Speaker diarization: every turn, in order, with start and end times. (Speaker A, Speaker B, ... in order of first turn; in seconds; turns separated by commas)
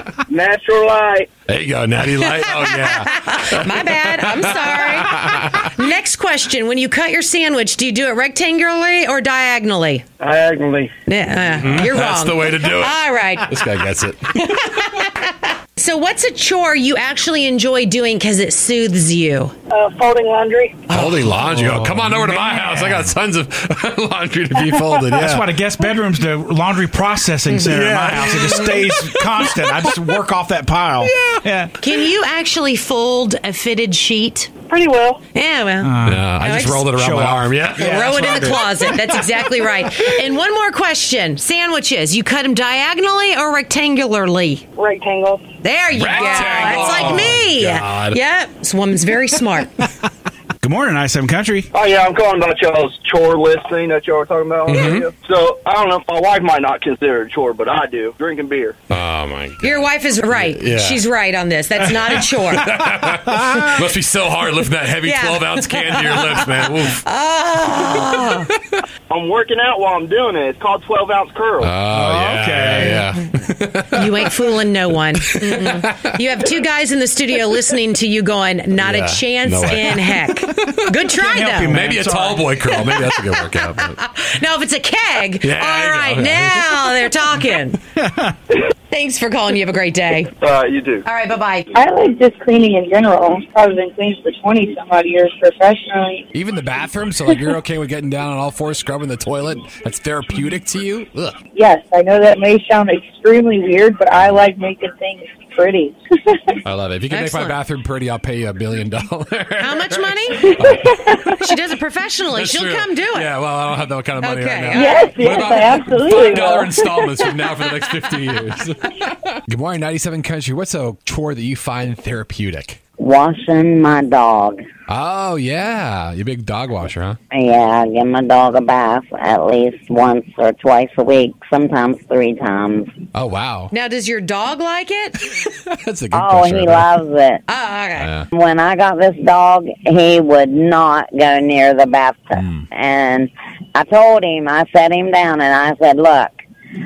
Speaker A: 0.3-1.3, Speaker B: 1.5-5.7, Speaker C: 2.2-10.0, Speaker A: 10.2-10.9, Speaker C: 11.1-13.6, Speaker B: 11.6-14.8, Speaker C: 14.3-19.5, Speaker A: 19.7-20.8, Speaker B: 20.9-25.5, Speaker D: 20.9-23.1, Speaker D: 25.1-31.7, Speaker B: 27.6-29.9, Speaker C: 28.3-28.6, Speaker B: 31.0-31.4, Speaker C: 31.8-34.5, Speaker A: 34.7-35.2, Speaker C: 35.3-36.9, Speaker D: 35.8-36.4, Speaker B: 36.0-39.2, Speaker D: 36.9-38.6, Speaker C: 37.8-44.6, Speaker E: 44.8-45.5, Speaker C: 45.6-49.8, Speaker B: 45.9-48.2, Speaker D: 47.0-47.3, Speaker D: 50.6-51.7, Speaker A: 51.7-58.8, Speaker B: 54.7-55.1, Speaker B: 58.9-61.0, Speaker C: 59.6-62.7, Speaker B: 61.8-67.0, Speaker C: 65.0-68.5, Speaker B: 67.9-68.8, Speaker A: 69.1-71.8, Speaker B: 71.6-74.3, Speaker D: 71.9-73.1, Speaker C: 73.9-81.9, Speaker B: 75.2-76.2, Speaker B: 78.8-81.0, Speaker D: 81.2-82.5, Speaker B: 81.7-84.0, Speaker C: 82.6-87.8, Speaker B: 85.4-87.3, Speaker C: 88.9-90.3, Speaker A: 90.4-91.0, Speaker C: 91.0-91.7, Speaker E: 91.7-96.2, Speaker B: 96.3-101.4, Speaker E: 101.5-106.6, Speaker B: 106.6-111.3, Speaker C: 107.1-107.6, Speaker C: 109.6-113.3, Speaker E: 110.6-111.4, Speaker B: 112.3-122.8, Speaker C: 114.2-115.2, Speaker E: 114.7-117.0, Speaker F: 123.0-124.6, Speaker B: 124.9-127.2, Speaker F: 127.3-132.9, Speaker B: 133.1-133.7, Speaker C: 133.7-135.2, Speaker B: 135.7-136.9, Speaker F: 136.1-137.4, Speaker C: 137.5-138.1, Speaker B: 138.0-138.3, Speaker F: 138.3-146.3